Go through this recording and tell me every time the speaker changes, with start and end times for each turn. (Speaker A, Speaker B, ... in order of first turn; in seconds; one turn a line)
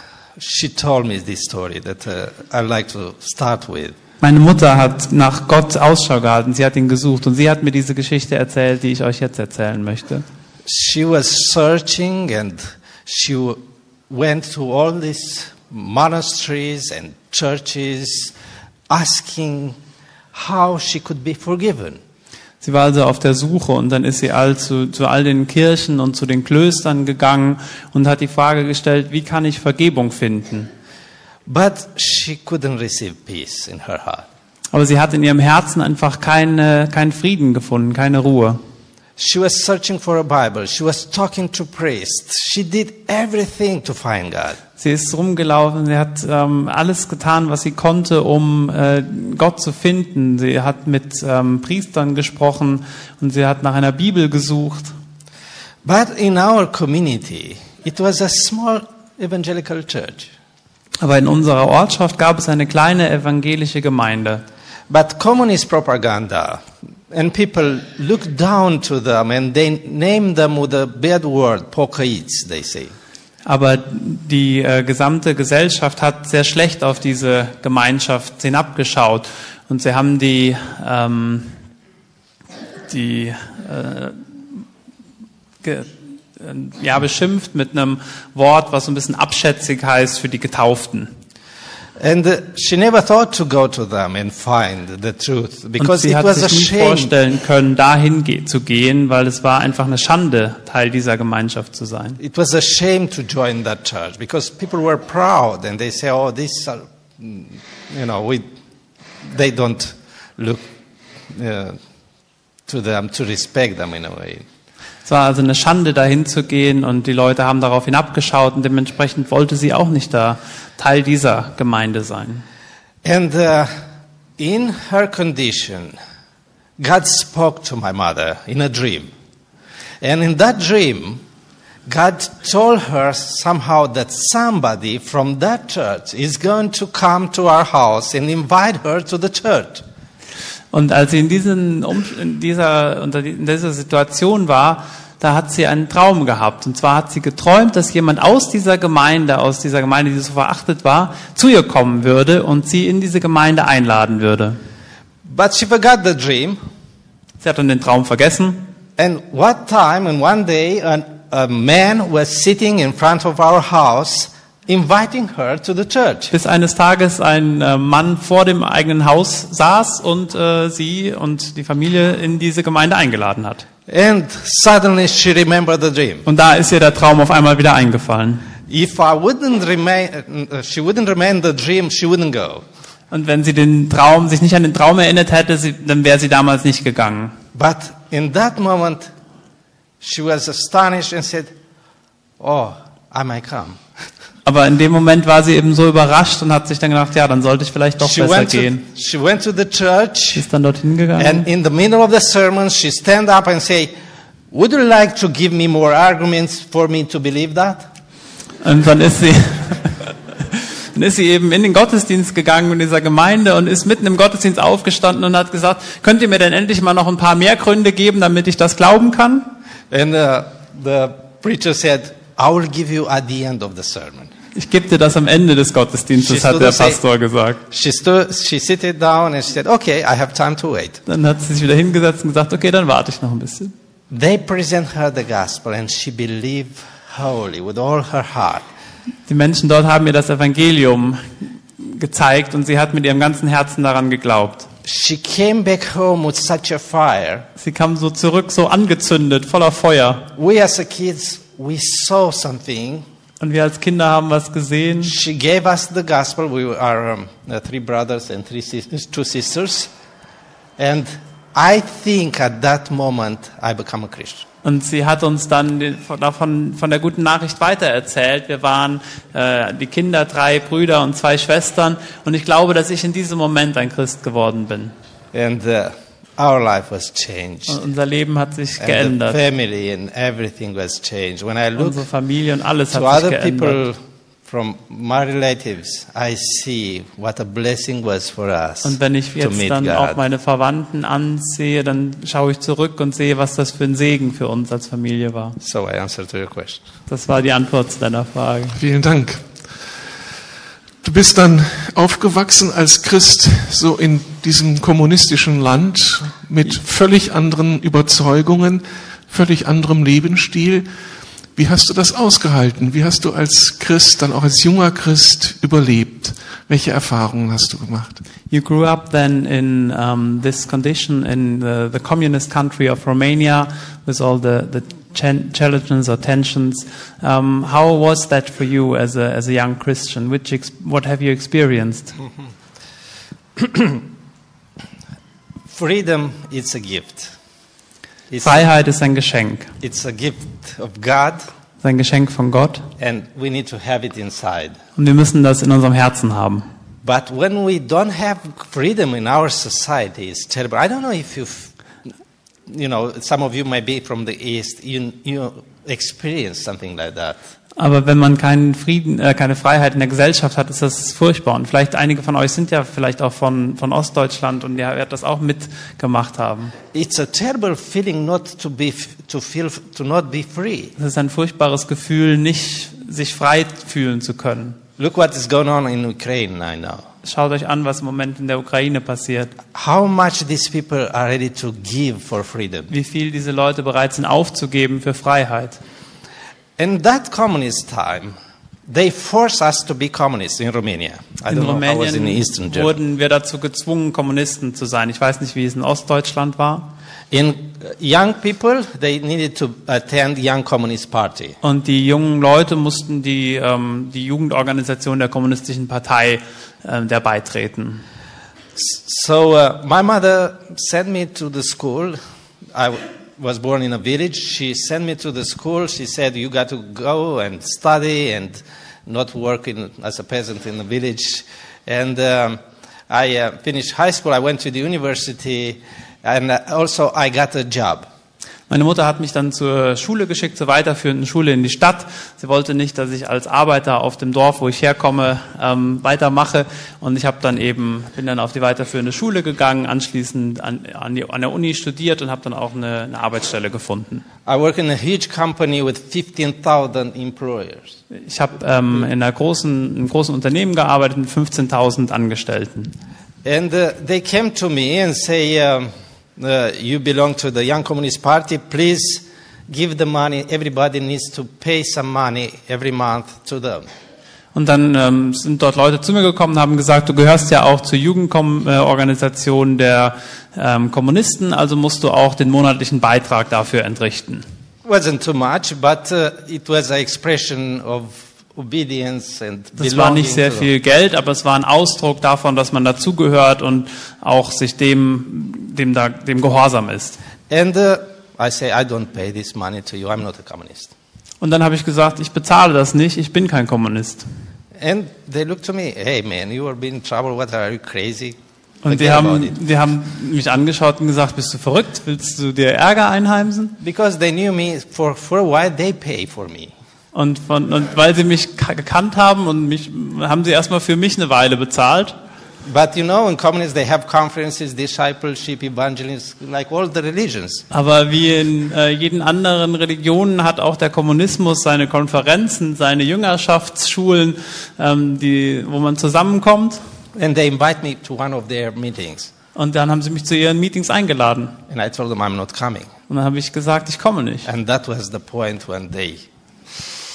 Speaker A: 0.4-3.9
Speaker B: 4.2-10.2
Speaker A: 10.6-18.3
Speaker A: 18.9-19.8
Speaker A: 20.3-22.0
Speaker B: 22.6-30.7
Speaker A: 31.4-34.2
Speaker B: 34.7-38.6
Speaker A: 39.2-44.6
Speaker B: 44.8-54.9
Speaker A: 55.8-60.3
Speaker B: 61.0-64.4
Speaker A: 64.9-72.9
Speaker B: 73.5-81.5
Speaker B: 82.9-84.2
Speaker B: 85.6-91.1
Speaker A: 92.0-97.1
Speaker B: 95.8-102.2
Speaker A: 102.2-108.4
Speaker A: 109.2-110.6
Speaker A: 111.3-111.8
Speaker A: 112.7-114.4
Speaker B: 115.0-122.4
Speaker A: 123.0-123.7
Speaker A: 124.4-126.0
Speaker A: 126.8-129.1
Speaker A: 130.0-131.2
Speaker A: 131.9-139.8
Speaker B: 140.7-154.6
Speaker A: 155.2-156.6
Speaker B: 157.4-158.7
Speaker A: 159.0-166.3
Speaker B: 166.3-173.6
Speaker A: 173.9-176.2
Speaker B: 176.2-178.4
Speaker A: 178.7-182.6
Speaker B: 183.1-187.3
Speaker A: 187.5-189.1
Speaker A: 190.0-191.5
Speaker A: 192.4-193.8
Speaker B: 194.4-198.8
Speaker A: 198.0-200.4
Speaker B: 200.3-201.5
Speaker A: 201.2-203.9
Speaker A: 204.5-207.9
Speaker B: 208.6-210.0
Speaker B: 210.9-219.5
Speaker A: 219.9-224.3
Speaker B: 224.5-227.6
Speaker A: 226.2-227.0
Speaker A: 227.7-231.0
Speaker B: 231.1-233.7
Speaker A: 234.1-238.6
Speaker B: 239.3-241.2
Speaker B: 241.8-244.7
Speaker A: 244.8-247.5
Speaker B: 247.6-250.3
Speaker A: 250.3-253.0
Speaker B: 253.4-255.1
Speaker A: 255.0-259.9
Speaker A: 260.8-264.4
Speaker B: 264.6-274.9
Speaker A: 275.3-277.8
Speaker B: 277.7-279.4
Speaker A: 278.8-282.1
Speaker B: 281.8-283.8
Speaker A: 282.9-290.2
Speaker B: 288.8-295.6
Speaker A: 295.6-296.8
Speaker B: 297.1-298.8
Speaker C: 298.8-299.5
Speaker C: 301.0-310.9
Speaker C: 311.6-318.2
Speaker B: 318.5-332.1
Speaker A: 333.6-334.0
Speaker A: 335.7-337.3
Speaker A: 338.3-338.7
Speaker B: 338.4-339.7
Speaker A: 339.8-341.4
Speaker B: 341.8-342.9
Speaker A: 343.0-344.8
Speaker B: 344.9-346.7
Speaker A: 347.0-351.7
Speaker A: 352.7-357.4
Speaker B: 357.8-366.7
Speaker A: 366.9-370.9
Speaker B: 371.0-374.8
Speaker A: 375.0-377.0
Speaker B: 377.2-379.5
Speaker A: 379.7-382.9
Speaker B: 382.9-385.8
Speaker A: 386.8-388.3
Speaker A: 388.9-392.9
Speaker B: 391.5-396.9
Speaker A: 397.3-401.6
Speaker B: 401.6-408.0
Speaker A: 408.7-412.2
Speaker A: 412.7-428.1
Speaker B: 428.7-444.2
Speaker A: 444.4-447.9
Speaker B: 448.1-452.9
Speaker A: 453.4-463.9
Speaker B: 464.5-474.4
Speaker A: 474.8-480.7
Speaker B: 479.8-487.2
Speaker A: 487.5-490.9
Speaker B: 491.4-494.2
Speaker A: 494.8-499.6
Speaker B: 498.8-503.7
Speaker A: 503.8-506.7
Speaker B: 507.1-512.1
Speaker A: 512.6-517.6
Speaker B: 517.7-526.8
Speaker A: 527.1-529.3
Speaker B: 529.5-531.5
Speaker A: 531.7-532.9
Speaker B: 533.1-534.5
Speaker A: 534.4-536.2